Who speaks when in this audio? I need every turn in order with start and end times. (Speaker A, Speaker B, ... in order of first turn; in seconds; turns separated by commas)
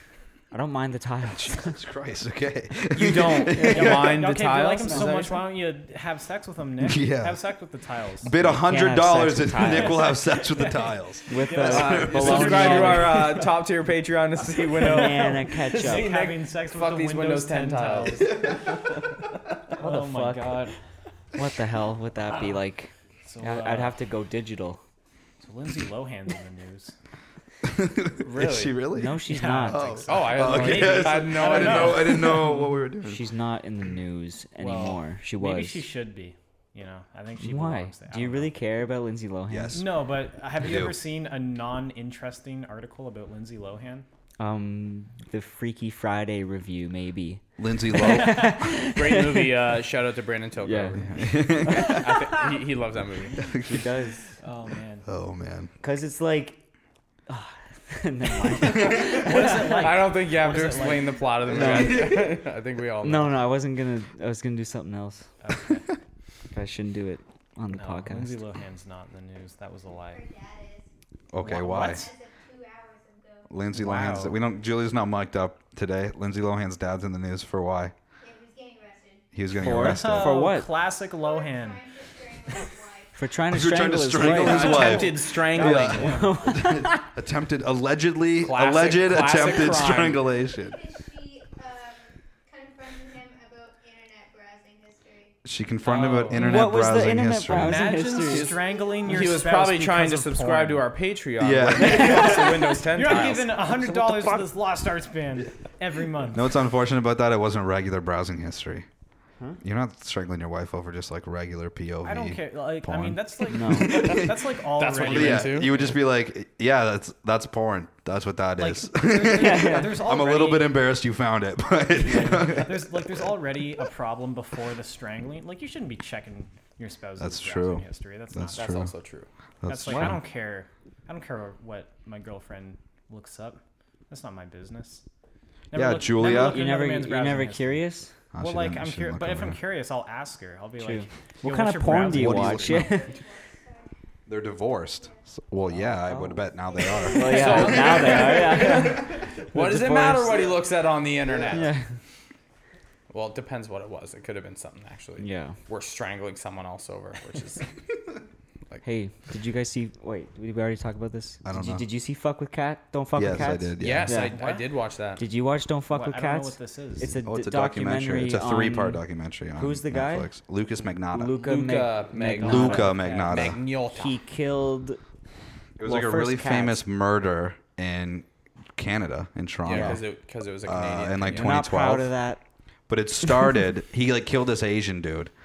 Speaker A: 0.5-1.8, Speaker B: 1.3-4.2, Speaker C: 2.9-5.4, Speaker A: 3.5-3.9, Speaker D: 3.6-8.3, Speaker A: 4.8-5.2, Speaker B: 6.8-7.4, Speaker B: 8.2-13.2, Speaker A: 8.3-10.2, Speaker D: 9.6-13.1, Speaker A: 11.3-13.5, Speaker C: 11.6-19.0, Speaker D: 14.8-18.6, Speaker A: 14.8-16.1, Speaker B: 18.4-18.7, Speaker D: 19.8-20.7, Speaker A: 19.8-20.7, Speaker A: 21.3-24.8, Speaker D: 23.2-23.9, Speaker D: 25.4-26.9, Speaker B: 27.6-33.2, Speaker C: 28.2-28.8, Speaker A: 28.9-30.0, Speaker D: 29.2-32.7, Speaker C: 30.1-32.5, Speaker A: 33.0-35.8, Speaker D: 34.6-38.5, Speaker A: 37.4-39.8, Speaker B: 39.5-39.9, Speaker D: 39.7-44.0, Speaker B: 40.6-41.0, Speaker A: 44.4-49.7, Speaker B: 47.6-48.7, Speaker C: 48.8-53.5, Speaker A: 50.6-52.5, Speaker B: 51.0-52.2, Speaker B: 53.4-53.9, Speaker A: 53.6-54.3, Speaker D: 54.4-55.1, Speaker B: 55.0-55.7, Speaker A: 55.8-56.6, Speaker A: 57.3-60.0, Speaker D: 58.9-61.2, Speaker C: 59.0-63.4, Speaker A: 61.5-62.3, Speaker B: 61.5-62.4, Speaker A: 63.0-65.3, Speaker D: 65.4-65.9, Speaker A: 66.5-68.4, Speaker D: 67.7-70.2, Speaker E: 70.1-70.9, Speaker B: 71.3-72.1, Speaker D: 71.4-72.1, Speaker E: 71.6-73.5, Speaker B: 73.5-77.9, Speaker D: 73.7-74.3, Speaker E: 78.2-79.2, Speaker B: 79.3-80.5, Speaker A: 79.5-80.7, Speaker D: 79.7-81.8, Speaker E: 81.2-83.2, Speaker A: 83.2-85.1, Speaker B: 83.5-90.8, Speaker D: 84.1-86.3, Speaker C: 84.2-86.1, Speaker A: 85.6-87.1, Speaker C: 88.4-90.2, Speaker E: 90.6-95.3, Speaker B: 95.4-98.0, Speaker D: 95.8-96.7, Speaker A: 96.3-98.5, Speaker D: 97.5-100.9, Speaker C: 98.2-103.7, Speaker E: 98.4-99.2, Speaker B: 101.4-102.7, Speaker D: 101.9-106.5, Speaker A: 104.0-104.4, Speaker B: 106.3-108.8, Speaker B: 109.6-123.2, Speaker D: 112.0-115.9, Speaker A: 113.5-114.2, Speaker C: 114.8-115.8, Speaker D: 118.6-120.8, Speaker A: 119.2-120.0, Speaker C: 122.1-122.5, Speaker A: 122.1-122.4, Speaker D: 122.1-128.8, Speaker B: 127.2-128.9, Speaker C: 128.5-129.3, Speaker B: 129.6-130.2, Speaker D: 129.7-135.0, Speaker A: 129.8-130.2, Speaker D: 135.7-137.8, Speaker B: 135.7-136.6, Speaker A: 136.2-138.2, Speaker B: 138.3-139.6, Speaker D: 138.4-142.9, Speaker A: 140.8-143.1, Speaker B: 141.9-143.0, Speaker E: 142.8-143.9, Speaker B: 144.3-148.8, Speaker E: 144.9-145.2, Speaker A: 146.1-146.4, Speaker E: 146.8-147.4, Speaker A: 147.0-150.4, Speaker C: 147.2-151.7, Speaker D: 147.3-148.3, Speaker B: 151.3-151.6, Speaker A: 151.5-151.8, Speaker C: 153.1-157.7, Speaker A: 155.2-155.6, Speaker A: 158.8-164.4, Speaker B: 161.4-161.8, Speaker B: 163.2-164.3, Speaker C: 163.8-165.2, Speaker D: 164.3-164.7, Speaker A: 165.2-169.0, Speaker D: 165.9-167.2, Speaker B: 167.2-171.4, Speaker A: 169.5-170.3, Speaker A: 171.1-173.0, Speaker C: 171.4-174.2, Speaker D: 172.3-173.5, Speaker B: 172.4-173.6, Speaker A: 173.9-175.0, Speaker B: 175.8-180.0, Speaker A: 175.8-176.8, Speaker C: 179.6-181.6, Speaker A: 179.7-180.0, Speaker B: 180.6-182.1, Speaker A: 181.3-182.4, Speaker B: 182.9-185.3